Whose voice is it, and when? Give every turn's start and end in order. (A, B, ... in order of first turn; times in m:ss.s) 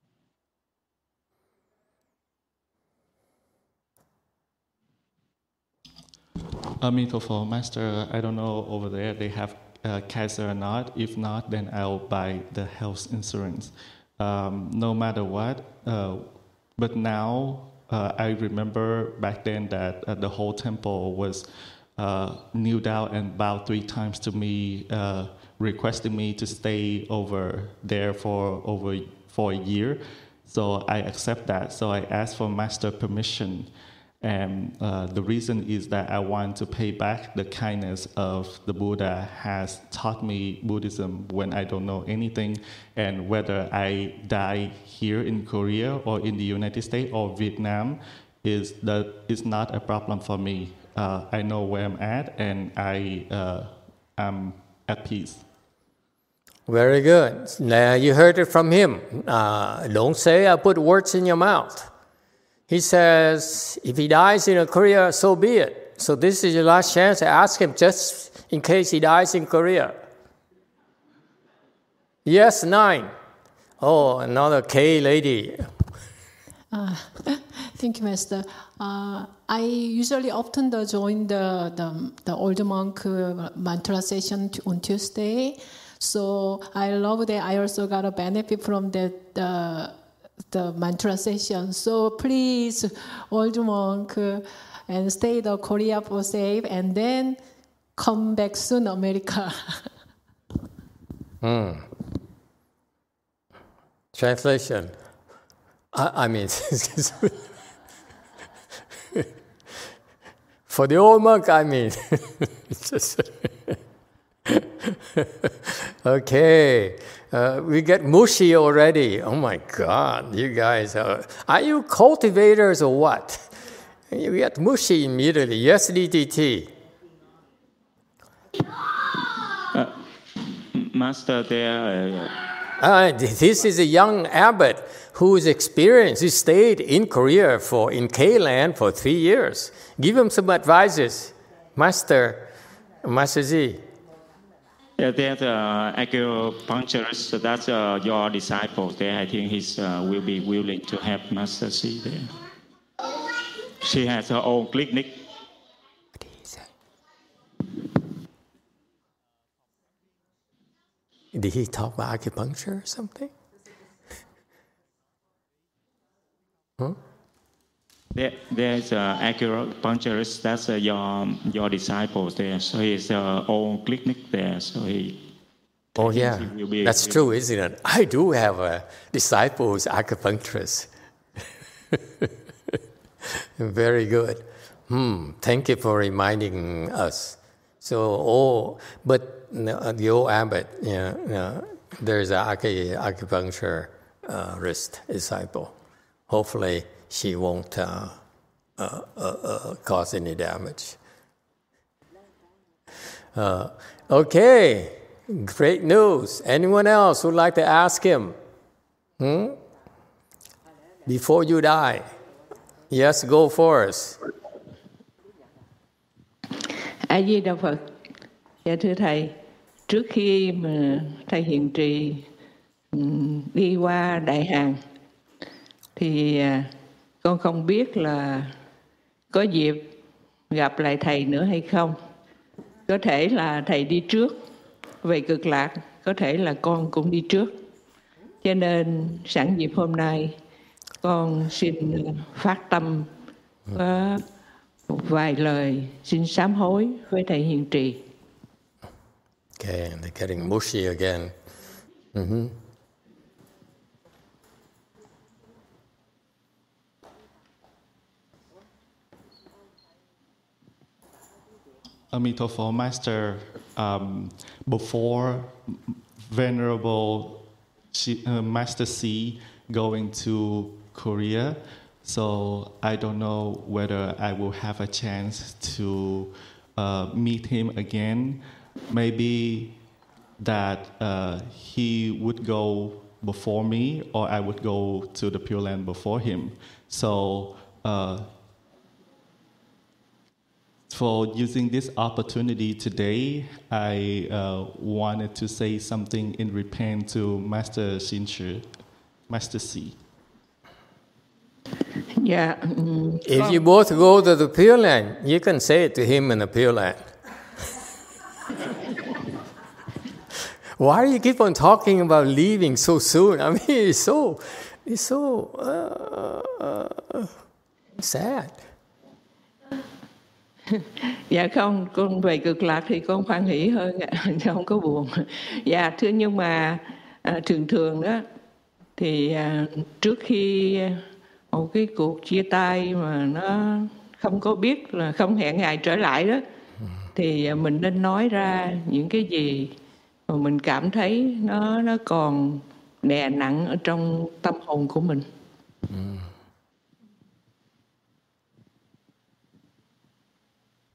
0:06.8-0:33.7 A
0:34.2-0:55.4 A
0:56.7-1:01.9 B
1:02.7-1:10.0 B
1:12.2-1:13.1 B
1:13.8-1:15.7 B
1:16.7-1:37.4 C
1:38.0-1:39.9 C
1:41.4-1:41.9 B
1:44.1-1:44.9 B
1:45.9-1:47.4 B
1:50.7-1:53.8 B
1:54.5-2:03.6 B
2:04.1-2:06.7 B
2:09.0-2:10.0 D
2:10.7-2:12.4 D
2:12.8-2:22.5 B
2:23.0-2:23.8 B
2:25.0-2:32.3 D
2:33.8-2:35.2 D
2:41.3-2:43.3 B
2:48.1-2:55.2 D
2:56.0-2:57.2 D
2:56.0-3:00.9 B
3:03.4-3:15.7 B
3:16.3-3:18.2 B
3:18.8-3:21.0 B
3:23.3-3:28.4 B
3:29.2-3:29.6 B
3:31.0-3:32.1 B
3:32.9-3:34.2 B
3:37.1-3:37.9 E
3:38.6-3:39.3 E
3:39.9-3:42.2 E
3:42.9-3:44.8 E
3:46.0-3:46.7 E
3:47.2-3:48.5 E
3:49.3-3:49.9 E
3:50.5-3:52.0 E
3:52.9-3:54.3 E
3:55.0-3:57.5 E
3:58.4-4:00.3 E
4:01.0-4:03.1 E
4:03.7-4:04.2 E
4:04.9-4:08.0 E
4:09.6-4:11.3 B
4:12.1-4:12.6 B
4:22.1-4:39.8 A
4:40.4-4:48.3 A
4:50.9-4:58.7 A
4:59.3-5:00.0 A
5:02.2-5:03.6 E
5:03.2-5:07.1 B
5:10.8-5:17.3 B
5:18.0-5:18.6 B
5:20.7-5:28.2 E
5:29.0-5:36.4 E
5:37.1-5:39.7 E
5:40.3-5:45.2 E
5:45.9-5:46.2 B